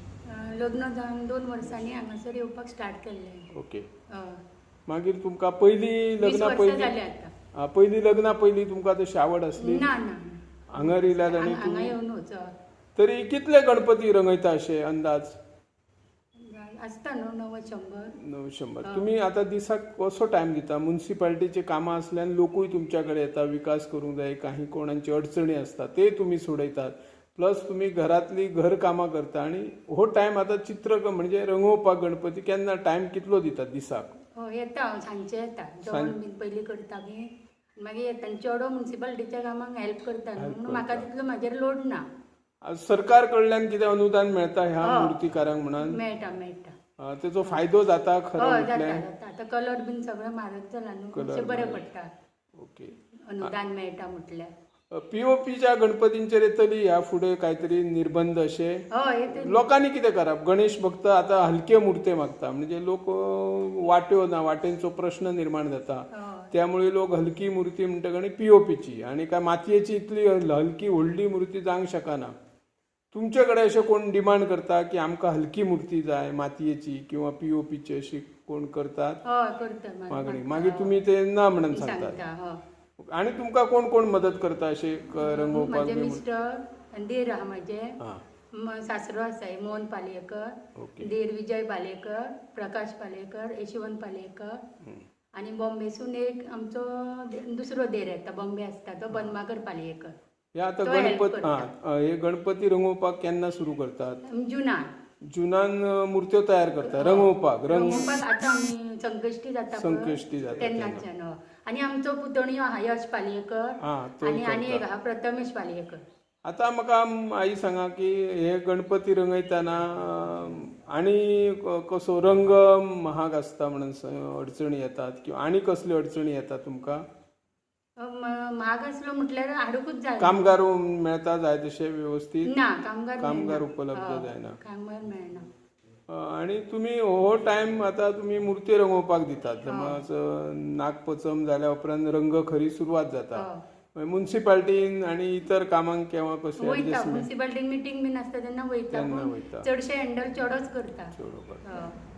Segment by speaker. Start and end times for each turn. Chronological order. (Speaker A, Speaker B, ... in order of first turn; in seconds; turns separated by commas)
Speaker A: 0.3-3.5, Speaker B: 3.5-3.9, Speaker A: 4.1-4.4, Speaker B: 4.9-6.9, Speaker A: 6.2-7.3, Speaker B: 7.5-9.9, Speaker A: 9.6-12.5, Speaker B: 10.7-11.9, Speaker B: 13.0-15.4, Speaker A: 16.4-18.2, Speaker B: 18.2-34.2, Speaker A: 34.4-42.0, Speaker B: 35.9-36.1, Speaker B: 40.4-41.1, Speaker B: 42.6-46.0, Speaker A: 44.8-45.2, Speaker A: 45.8-46.7, Speaker B: 47.0-49.0, Speaker A: 48.4-52.1, Speaker B: 51.1-51.9, Speaker B: 52.6-53.5, Speaker A: 53.3-54.5, Speaker B: 54.9-72.3, Speaker A: 58.9-59.6, Speaker A: 66.1-66.5, Speaker B: 73.1-79.2, Speaker A: 79.2-81.0, Speaker B: 80.1-82.2, Speaker A: 81.7-82.6, Speaker B: 83.0-86.2, Speaker A: 85.2-88.0, Speaker A: 88.5-94.6, Speaker B: 90.8-91.1, Speaker A: 95.4-100.1, Speaker B: 100.5-104.2, Speaker A: 100.8-101.7, Speaker A: 104.2-104.9, Speaker B: 105.3-108.1, Speaker A: 106.8-116.0, Speaker B: 109.8-111.0, Speaker B: 113.8-114.8, Speaker B: 116.5-127.0, Speaker A: 128.0-130.5, Speaker B: 130.2-132.5, Speaker A: 132.5-135.5, Speaker B: 133.2-134.6, Speaker B: 136.1-143.4, Speaker A: 139.7-140.0, Speaker A: 143.3-143.6, Speaker B: 144.0-147.3, Speaker A: 146.6-152.0, Speaker B: 148.9-149.7, Speaker B: 151.2-151.8